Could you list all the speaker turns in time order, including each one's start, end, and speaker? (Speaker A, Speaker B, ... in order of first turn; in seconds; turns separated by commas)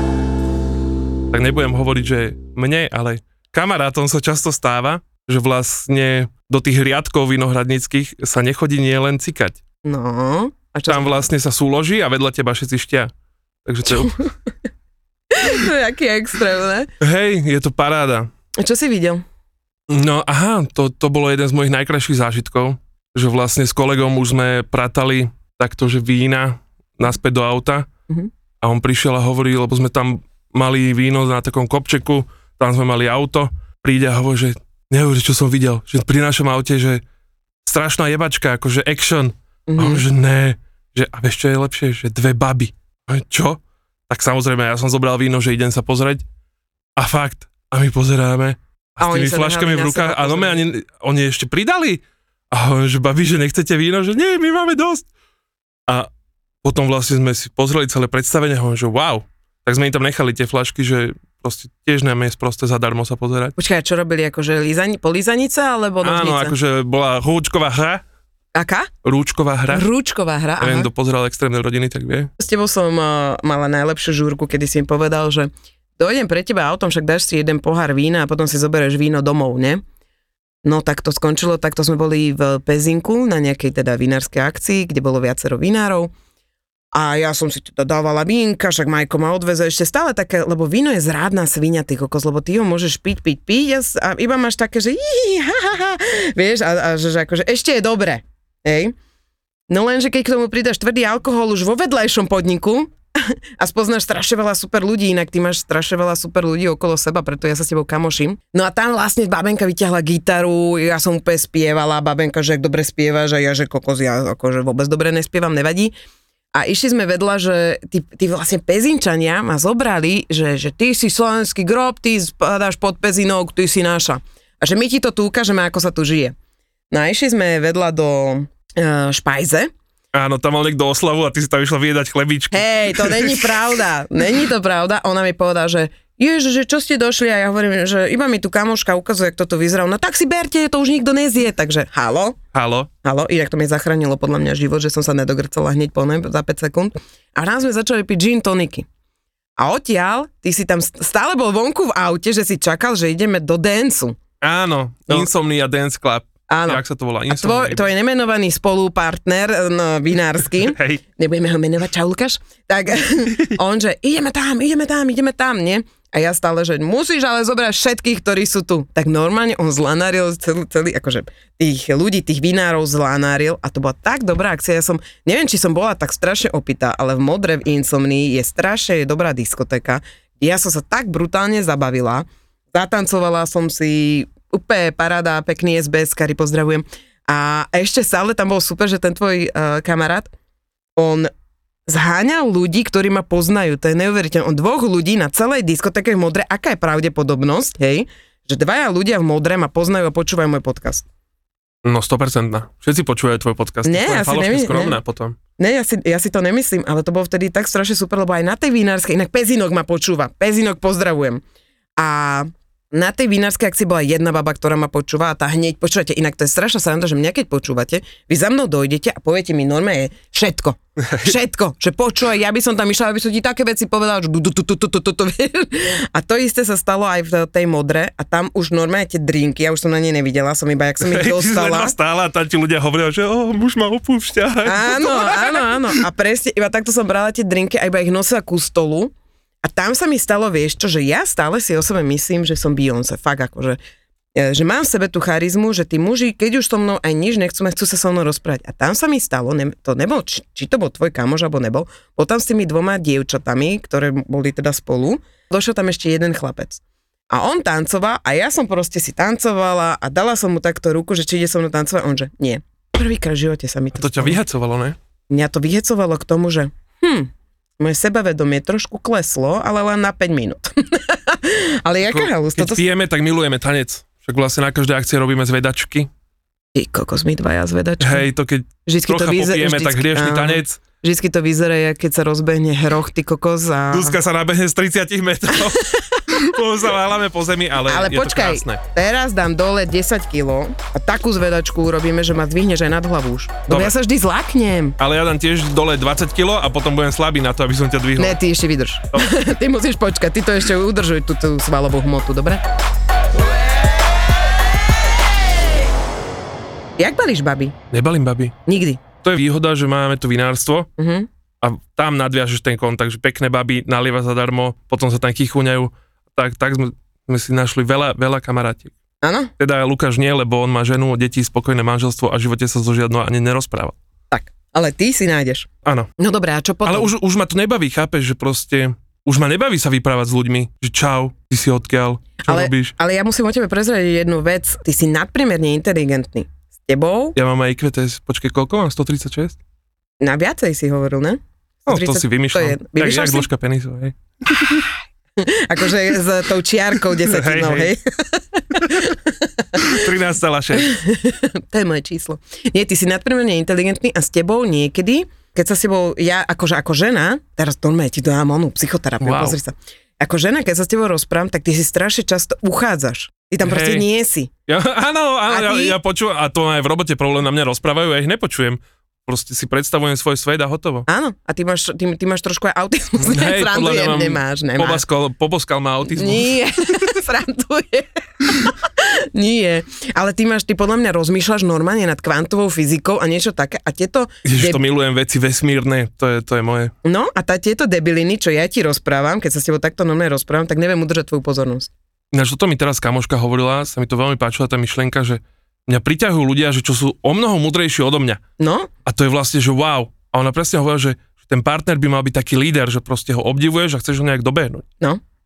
Speaker A: 1.3-9.6, Speaker B: 9.8-11.2, Speaker A: 10.9-13.1, Speaker A: 13.7-14.2, Speaker B: 15.3-16.9, Speaker A: 17.0-18.3, Speaker B: 18.6-19.2, Speaker A: 19.9-27.9, Speaker A: 28.6-37.0, Speaker A: 37.6-46.2, Speaker B: 39.7-40.0, Speaker A: 47.0-55.1, Speaker B: 49.0-50.6, Speaker A: 56.6-63.5, Speaker B: 63.6-66.5, Speaker A: 66.0-68.0, Speaker B: 68.5-68.9, Speaker A: 69.0-69.9, Speaker B: 69.7-70.9, Speaker A: 70.6-72.3, Speaker B: 72.4-79.8, Speaker B: 80.6-86.1, Speaker B: 86.9-99.0, Speaker B: 99.7-115.9, Speaker B: 116.5-126.3, Speaker B: 126.9-129.7, Speaker A: 130.1-133.5, Speaker B: 132.5-142.4, Speaker A: 142.5-142.9, Speaker B: 143.0-148.9, Speaker B: 149.6-154.2, Speaker A: 154.4-157.8, Speaker B: 156.5-190.3, Speaker A: 160.6-161.0, Speaker B: 191.0-191.3, Speaker B: 191.9-201.1, Speaker A: 201.8-205.4, Speaker B: 203.8-205.0, Speaker B: 205.6-211.4, Speaker B: 212.0-231.9, Speaker A: 221.0-221.3, Speaker A: 231.0-235.9, Speaker B: 234.6-239.1, Speaker B: 239.6-243.8, Speaker B: 244.4-264.4, Speaker A: 263.9-265.0, Speaker B: 265.3-272.8, Speaker A: 272.1-276.1, Speaker B: 276.8-278.3, Speaker A: 278.0-280.8, Speaker B: 278.9-284.2, Speaker A: 283.9-288.8, Speaker B: 285.8-286.2, Speaker B: 287.9-295.0, Speaker A: 293.7-293.9, Speaker A: 295.0-298.4, Speaker B: 298.2-302.6, Speaker B: 307.0-307.8, Speaker A: 307.9-308.6, Speaker B: 308.7-309.0, Speaker A: 309.2-310.9, Speaker B: 311.0-311.3, Speaker A: 311.6-318.9, Speaker B: 319.2-319.5, Speaker A: 319.6-324.0, Speaker B: 324.3-325.7, Speaker B: 326.2-327.1, Speaker A: 326.9-332.9, Speaker B: 332.4-337.4, Speaker A: 337.4-339.6, Speaker B: 340.2-343.5, Speaker A: 341.9-344.1, Speaker B: 344.6-350.1, Speaker A: 347.2-347.9, Speaker A: 349.8-351.0, Speaker B: 350.8-364.5, Speaker A: 359.2-359.6, Speaker A: 363.6-364.1, Speaker A: 364.7-371.1, Speaker B: 365.5-366.0, Speaker B: 371.1-375.0, Speaker A: 373.2-376.6, Speaker B: 376.1-384.8, Speaker A: 384.4-386.9, Speaker B: 387.1-391.9, Speaker A: 392.3-398.4, Speaker B: 398.6-398.9, Speaker A: 399.1-404.9